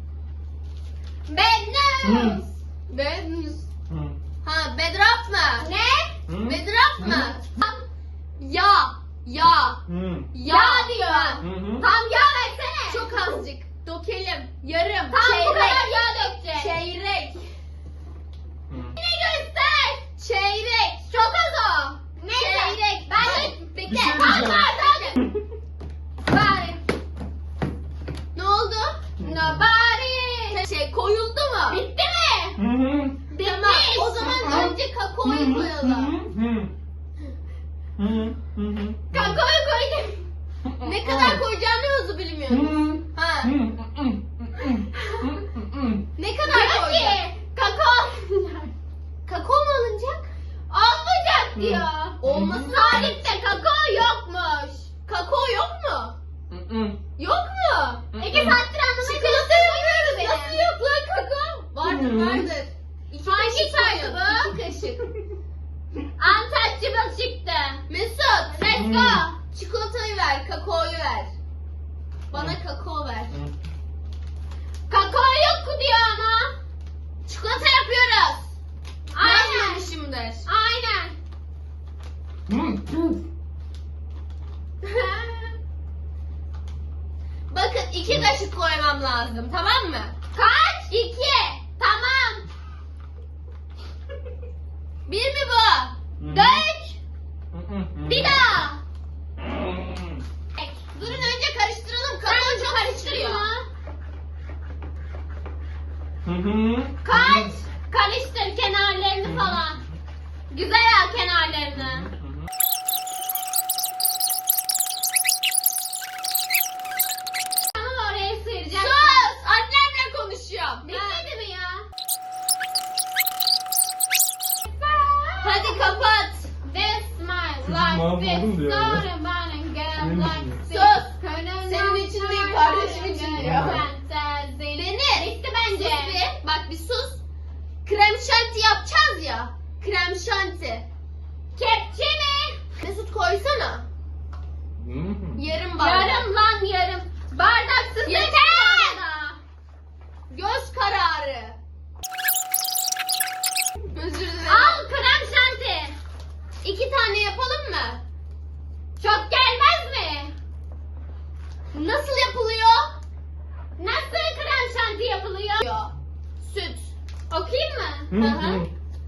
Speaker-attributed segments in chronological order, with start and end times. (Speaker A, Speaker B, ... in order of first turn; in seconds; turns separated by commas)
Speaker A: 1.3-2.5, Speaker B: 2.0-2.4, Speaker C: 2.9-3.6, Speaker B: 3.9-4.2, Speaker C: 4.4-5.7, Speaker A: 5.6-6.1, Speaker B: 6.3-7.3, Speaker C: 6.4-7.4, Speaker A: 7.5-7.8, Speaker C: 8.4-9.8, Speaker B: 9.9-10.3, Speaker C: 10.3-11.5, Speaker A: 10.4-13.2, Speaker B: 11.4-11.9, Speaker C: 12.9-17.5, Speaker A: 15.1-16.8, Speaker B: 18.7-19.0, Speaker A: 19.0-20.0, Speaker C: 20.0-21.2, Speaker A: 21.1-25.2, Speaker C: 22.4-25.1, Speaker B: 23.9-24.7, Speaker A: 26.3-26.8, Speaker C: 28.3-29.0, Speaker B: 29.2-29.4, Speaker A: 29.2-30.6, Speaker C: 30.5-31.8, Speaker A: 31.7-32.6, Speaker B: 32.6-33.2, Speaker A: 33.3-34.7, Speaker C: 33.4-36.1, Speaker B: 34.4-34.7, Speaker B: 35.2-36.7, Speaker B: 38.0-39.4, Speaker A: 39.1-40.2, Speaker B: 40.6-41.4, Speaker C: 40.8-43.5, Speaker B: 42.5-46.0, Speaker C: 46.2-47.2, Speaker A: 46.5-48.7, Speaker C: 49.3-50.3, Speaker A: 50.7-54.9, Speaker B: 51.6-53.1, Speaker C: 52.2-53.6, Speaker C: 55.0-56.2, Speaker B: 56.5-57.0, Speaker C: 57.2-58.4, Speaker A: 58.2-60.7, Speaker B: 58.2-58.6, Speaker C: 59.0-65.0, Speaker B: 61.8-62.5, Speaker A: 63.2-64.5, Speaker A: 66.2-67.8, Speaker C: 67.9-71.3, Speaker A: 68.5-68.8, Speaker B: 68.7-69.3, Speaker C: 72.3-73.4, Speaker B: 72.3-72.6, Speaker A: 74.9-76.6, Speaker C: 77.3-78.5, Speaker A: 79.1-79.9, Speaker C: 79.2-80.5, Speaker A: 80.4-81.2, Speaker B: 82.5-83.2, Speaker A: 84.9-85.4, Speaker C: 87.5-90.2, Speaker B: 88.1-88.3, Speaker A: 90.3-92.5, Speaker C: 95.1-96.0, Speaker B: 96.2-96.7, Speaker A: 96.3-97.0, Speaker B: 97.5-98.4, Speaker A: 98.1-98.8, Speaker B: 99.4-100.2, Speaker C: 100.9-103.5, Speaker B: 101.0-101.3, Speaker A: 102.3-103.7, Speaker B: 106.2-107.6, Speaker A: 107.0-109.8, Speaker B: 109.2-110.0, Speaker A: 110.5-112.1, Speaker B: 111.7-112.5, Speaker A: 117.7-119.3, Speaker C: 118.7-121.3, Speaker A: 120.8-121.9, Speaker A: 124.7-125.8, Speaker C: 125.4-126.5, Speaker A: 126.6-136.3, Speaker B: 127.6-129.1, Speaker B: 129.9-130.6, Speaker C: 130.7-131.1, Speaker C: 131.7-133.8, Speaker B: 133.4-133.9, Speaker C: 134.7-137.2, Speaker C: 137.8-140.9, Speaker A: 141.6-142.6, Speaker C: 142.8-143.9, Speaker B: 144.8-145.4, Speaker C: 145.3-146.3, Speaker A: 145.8-149.4, Speaker C: 148.1-149.0, Speaker C: 150.3-151.6, Speaker C: 153.9-154.8, Speaker A: 154.5-156.0, Speaker C: 156.6-158.0, Speaker A: 159.0-160.3, Speaker C: 161.7-162.9, Speaker A: 163.8-165.6, Speaker C: 165.6-166.9, Speaker A: 167.3-168.4, Speaker B: 168.1-168.7, Speaker C: 168.2-168.7